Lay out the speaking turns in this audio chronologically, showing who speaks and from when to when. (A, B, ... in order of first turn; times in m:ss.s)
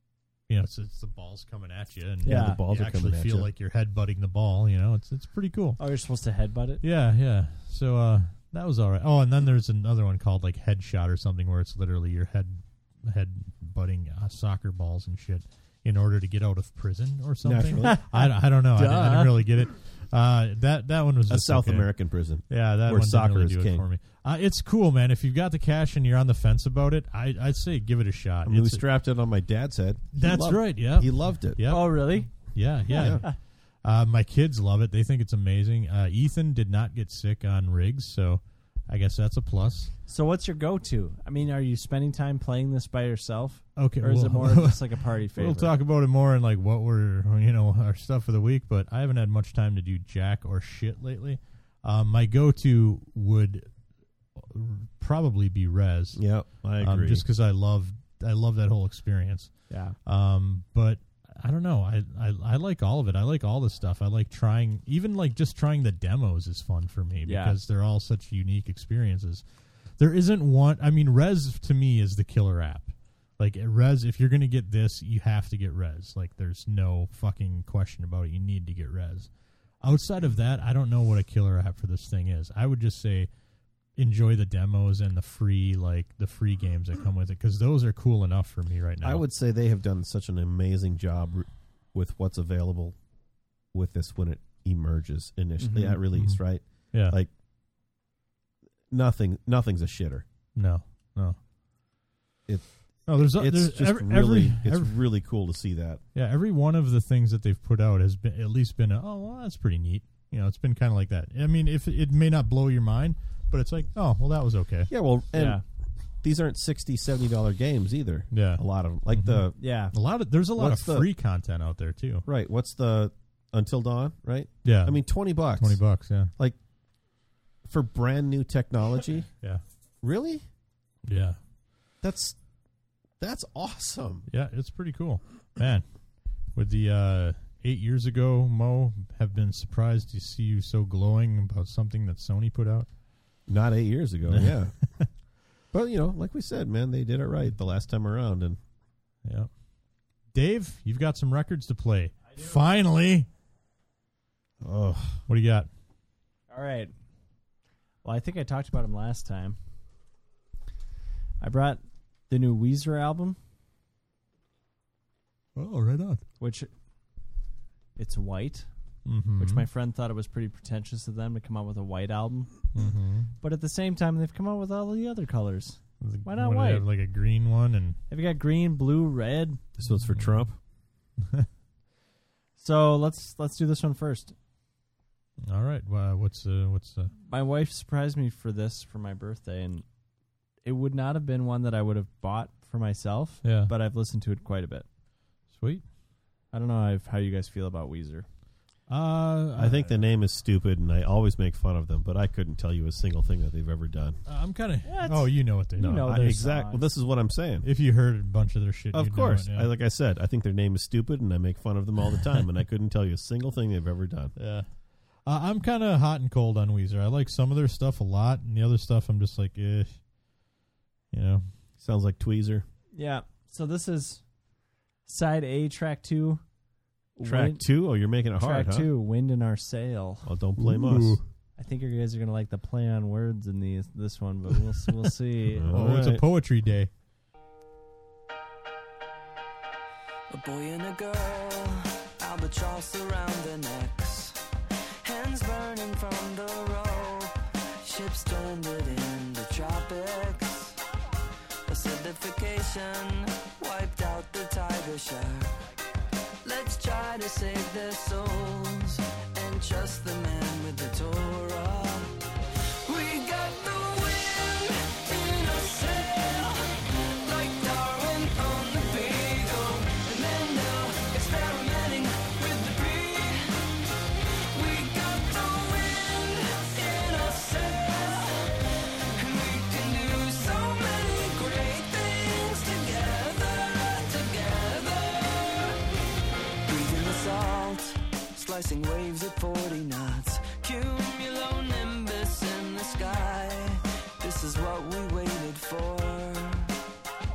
0:00.5-0:05.8 A
0:02.2-0:03.5 B
0:02.2-0:02.6 C
0:05.8-0:06.8 C
0:06.8-0:21.9 A
0:17.4-0:18.0 B
0:17.8-0:19.4 C
0:21.3-0:23.8 B
0:22.5-0:28.8 A
0:28.4-0:31.6 B
0:30.1-0:39.9 A
0:31.7-0:32.3 C
0:32.9-0:33.3 C
0:32.9-0:33.2 B
0:40.1-0:45.7 C
0:43.8-0:53.7 A
0:54.4-0:56.2 A
0:56.1-0:57.2 B
0:56.8-1:19.3 A
0:59.7-1:00.0 C
1:07.2-1:07.6 C
1:19.8-1:23.3 A
1:24.0-1:29.2 A
1:29.0-1:33.0 B
1:33.7-1:37.3 B
1:35.6-1:36.0 C
1:36.1-1:36.4 A
1:36.9-1:37.2 A
1:38.9-1:40.2 B
1:40.6-1:41.4 A
1:42.5-1:46.0 B
1:43.1-1:45.0 A
1:46.1-1:54.9 A
1:54.9-1:55.6 B
1:55.3-1:55.6 C
1:56.2-1:59.6 B
1:58.3-2:02.2 A
1:59.6-1:59.9 C
2:00.6-2:01.1 B
2:02.2-2:05.8 B
2:04.6-2:06.3 A
2:07.6-2:09.3 B
2:10.0-2:10.4 B
2:11.1-2:11.4 A
2:12.0-2:12.4 B
2:13.2-2:14.2 B
2:14.3-2:15.8 A
2:16.5-2:22.9 A
2:23.5-2:24.8 B
2:24.3-2:25.0 A
2:25.7-2:28.6 B
2:29.2-2:29.5 A
2:30.3-2:33.3 A
2:32.3-2:32.6 C
2:34.6-2:35.2 B
2:35.3-2:35.7 A
2:36.5-2:36.9 C
2:38.0-2:39.6 C
2:41.4-2:43.4 C
2:45.6-2:46.2 A
2:46.4-2:46.7 C
2:48.0-2:48.7 C
2:49.0-2:49.6 A
2:49.4-2:52.6 C
2:52.7-2:53.3 A
2:53.4-2:56.8 C
2:56.0-2:58.0 A
2:58.1-2:59.6 C
2:59.8-3:00.6 B
2:59.9-3:00.4 A
3:01.2-3:01.5 A
3:02.6-3:04.3 C
3:05.4-3:07.1 A
3:07.3-3:09.8 C
3:10.6-3:14.8 C
3:13.4-3:13.7 A
3:15.5-3:15.8 A
3:16.5-3:18.2 C
3:18.9-3:20.0 A
3:19.6-3:24.2 B
3:24.2-3:26.5 A
3:24.8-3:26.8 C
3:25.8-3:27.7 B
3:27.6-3:29.7 A
3:28.9-3:34.3 B
3:34.4-3:34.7 A
3:35.2-3:40.0 A
3:41.1-3:41.4 A
3:41.8-3:42.6 B
3:42.9-3:44.2 C
3:45.0-3:46.4 C
3:47.2-3:47.6 C
3:47.2-3:48.9 B
3:48.4-3:50.3 C
3:50.2-3:51.2 B
3:50.6-3:51.2 A
3:51.6-3:55.7 C
3:55.6-3:56.2 B
3:55.6-3:56.9 A
4:00.3-4:04.4 D
4:05.0-4:10.8 D
4:11.7-4:15.5 D
4:16.4-4:22.2 D
4:22.8-4:33.6 D
4:34.5-4:38.6 D
4:39.2-4:45.8 D
4:46.6-4:56.7 D